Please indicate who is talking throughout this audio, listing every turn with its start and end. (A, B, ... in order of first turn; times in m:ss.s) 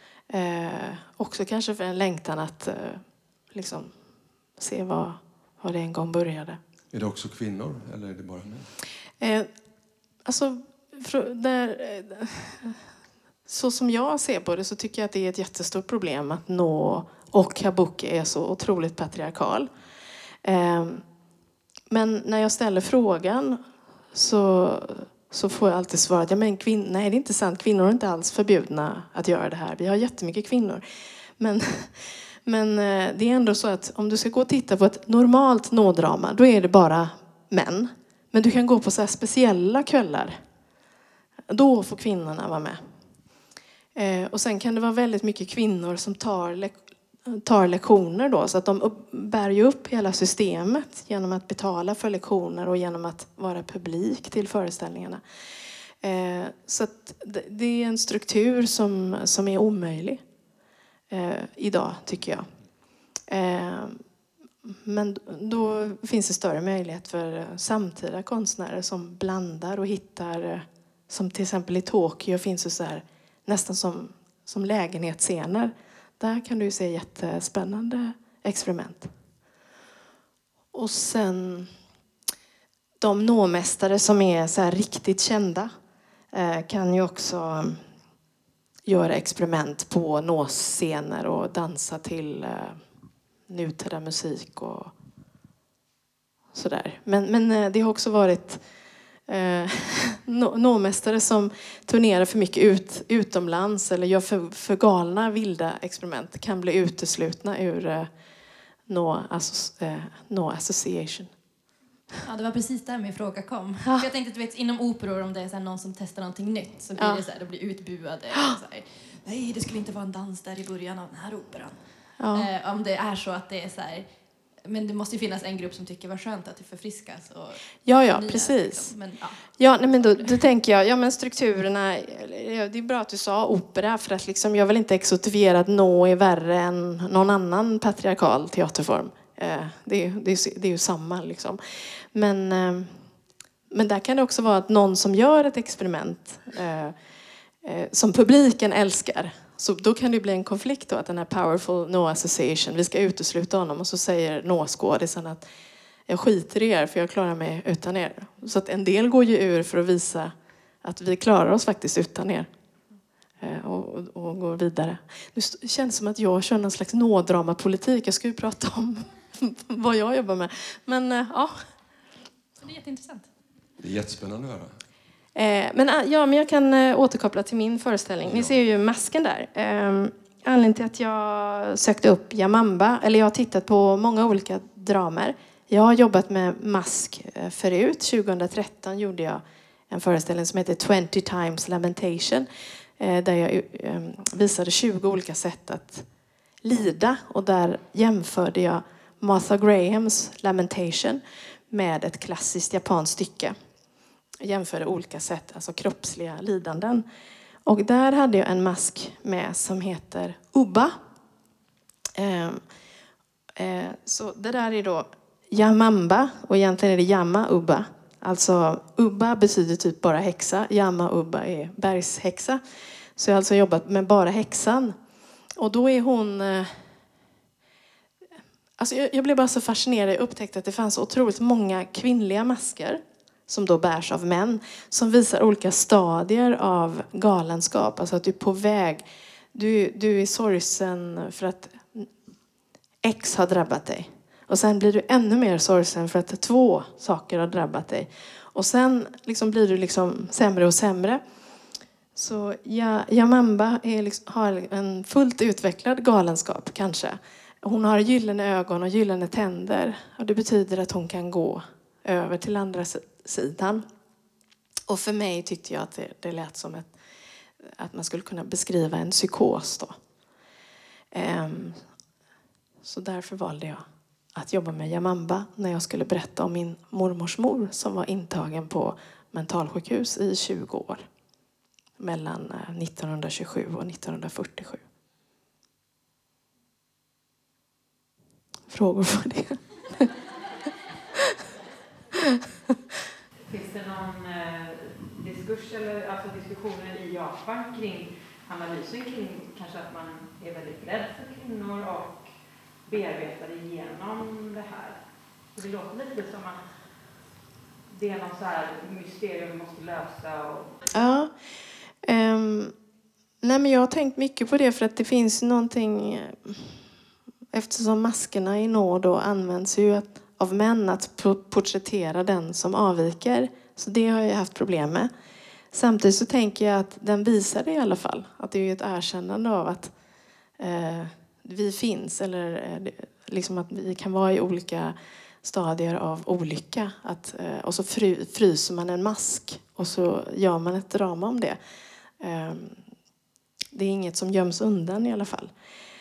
0:00.3-0:04.0 A
0:04.6-0:06.6 A
0:06.9-0:08.7 B
0:09.2-0:09.5 A
0:10.3-0:12.8 A
0:13.4-0:19.7 A
0:20.4-0:21.0 A
0:21.9-0:23.6 A
0:24.1-0:30.8 A
0:31.4-0:40.4 A
0:41.5-0:42.8 A
0:44.0-0:55.2 A
0:56.0-1:00.2 A
1:01.1-1:02.5 A
1:03.3-1:04.0 A
1:04.8-1:19.1 A
1:20.7-1:21.7 A
1:23.0-1:25.7 A
1:26.3-1:27.8 A
1:28.8-1:32.8 A
1:33.5-1:34.9 A
1:36.5-1:38.6 A
1:39.3-1:48.1 A
1:48.9-1:51.3 A
1:52.2-2:04.1 C
2:02.2-2:02.5 A
2:04.6-2:09.5 C
2:07.8-2:08.9 A
2:09.6-2:21.6 A
2:10.0-2:10.4 C
2:22.1-2:23.0 A
2:23.7-2:27.0 A
2:27.6-2:35.4 A
2:36.1-2:40.3 A
2:40.8-2:42.5 A
2:43.4-2:51.5 A
2:52.6-2:53.3 C
2:53.8-2:54.8 B
2:55.4-3:12.5 A
2:58.2-2:58.6 B
3:13.0-3:16.0 A
3:16.6-3:23.5 A
3:24.4-3:27.0 A
3:27.6-3:30.9 A
3:32.2-3:32.6 A
3:33.6-3:42.6 A
3:43.2-3:45.0 A
3:45.6-3:46.9 A
3:48.8-4:02.1 A
4:03.0-4:11.2 A
4:12.2-4:23.8 A
4:24.9-4:26.9 A
4:27.8-4:29.9 A
4:31.1-4:31.8 A
4:32.8-4:33.8 A
4:34.4-4:41.0 A
4:42.0-4:44.8 A
4:48.7-4:50.1 A
4:53.5-5:02.2 D
5:02.9-5:05.0 D
5:05.6-5:06.6 D
5:07.9-5:10.7 D
5:10.9-5:11.3 A
5:12.0-5:12.7 A
5:13.4-5:16.8 A
5:17.5-5:25.1 A
5:25.7-5:29.9 A
5:30.6-5:41.6 A
5:42.2-5:42.8 A
5:43.7-5:45.5 A